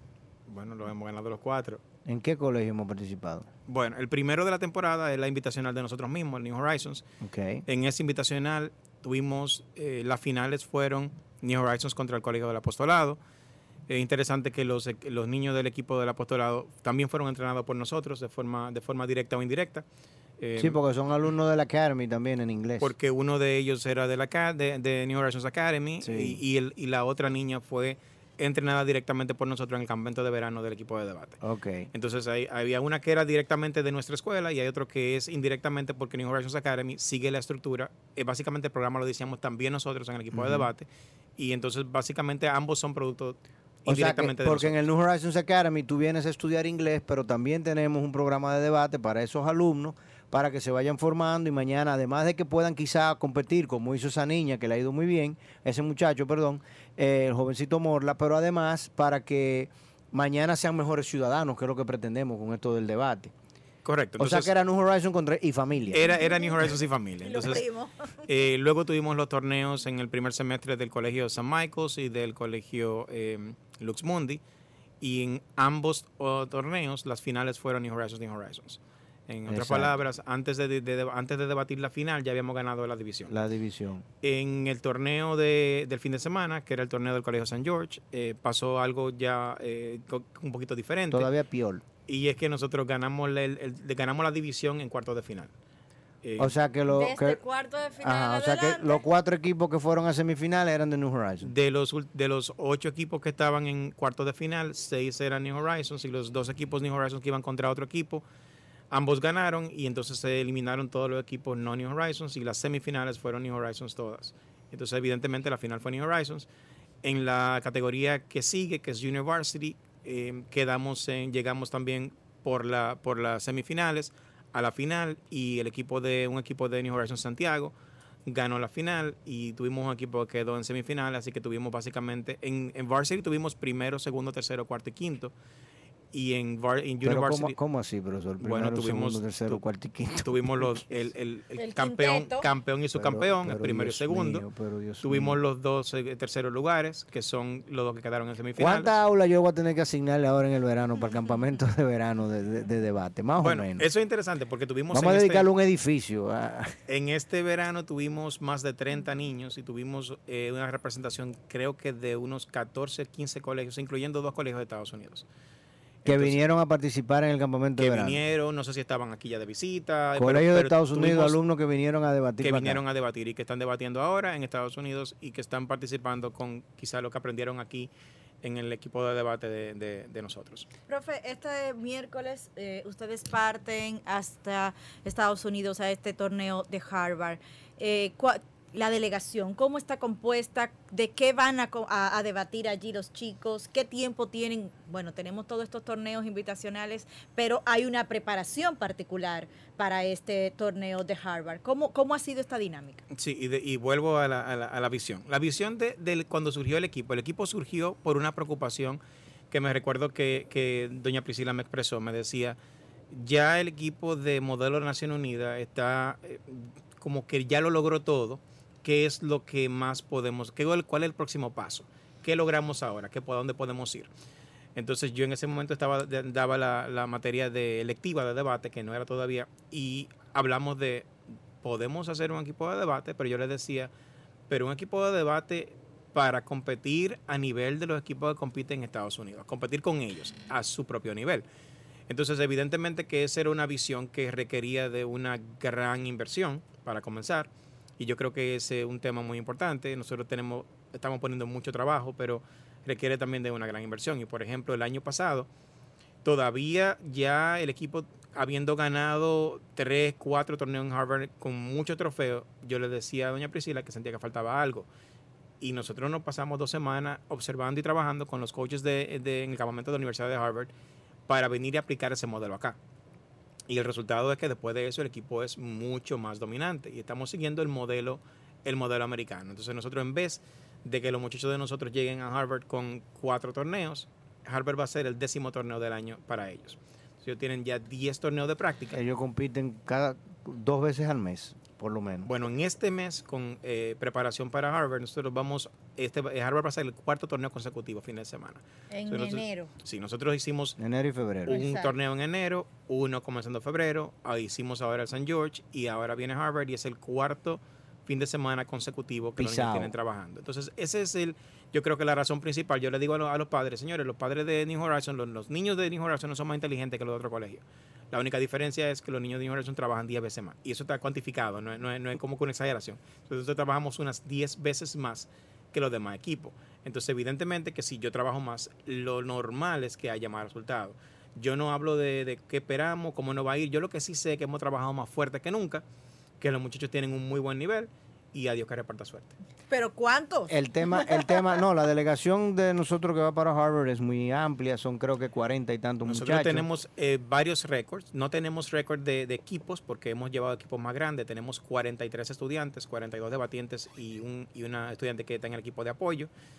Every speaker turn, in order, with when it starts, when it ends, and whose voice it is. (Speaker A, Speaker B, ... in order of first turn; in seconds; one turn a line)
Speaker A: 0.5-1.8
Speaker B: 2.1-3.5
Speaker A: 3.7-7.0
Speaker B: 7.2-7.6
Speaker A: 7.7-13.2
Speaker A: 13.9-19.9
Speaker A: 20.4-20.8
Speaker B: 20.6-22.9
Speaker A: 22.8-31.4
Speaker B: 26.0-26.4
Speaker B: 31.4-31.9
Speaker A: 31.9-40.9
Speaker B: 40.3-40.7
Speaker A: 41.4-44.8
Speaker B: 43.9-63.3
Speaker A: 63.8-64.5
Speaker B: 64.2-66.0
Speaker A: 65.9-67.7
Speaker C: 66.0-67.9
Speaker A: 68.3-74.4
Speaker A: 75.0-83.3
Speaker B: 79.5-79.9
Speaker B: 83.3-84.0
Speaker A: 84.2-91.3
Speaker B: 91.1-91.8
Speaker A: 92.1-95.5
Speaker A: 96.2-96.5
Speaker B: 96.4-97.4
Speaker C: 96.9-99.0
Speaker B: 98.0-101.5
Speaker A: 101.4-108.2
Speaker A: 108.9-116.5
Speaker A: 117.0-127.8
Speaker A: 128.3-135.3
Speaker A: 136.1-137.6
Speaker B: 137.0-140.8
Speaker A: 138.4-139.6
Speaker A: 140.2-144.4
Speaker C: 141.6-142.5
Speaker B: 142.9-145.4
Speaker A: 145.0-148.9
Speaker B: 148.6-153.9
Speaker A: 153.4-155.5
Speaker B: 154.9-156.8
Speaker A: 156.9-165.3
Speaker A: 166.0-166.4
Speaker B: 166.1-168.2
Speaker A: 167.8-171.4
Speaker B: 170.2-172.8
Speaker A: 172.4-177.9
Speaker A: 178.4-180.7
Speaker C: 180.9-203.0
Speaker A: 203.1-209.0
Speaker A: 209.5-212.6
Speaker A: 213.1-224.1
Speaker A: 224.8-231.1
Speaker A: 231.6-233.9
Speaker A: 234.5-241.4
Speaker A: 242.1-255.5
Speaker A: 256.2-264.9
Speaker A: 265.6-270.7
Speaker A: 271.3-272.8
Speaker A: 273.7-289.0
Speaker B: 288.9-292.3
Speaker A: 292.2-300.8
Speaker C: 298.9-299.7
Speaker B: 300.8-301.6
Speaker A: 301.5-335.8
Speaker C: 301.5-301.9
Speaker B: 309.4-309.9
Speaker A: 336.4-339.4
Speaker C: 339.7-341.4
Speaker B: 340.5-346.7
Speaker A: 346.1-356.3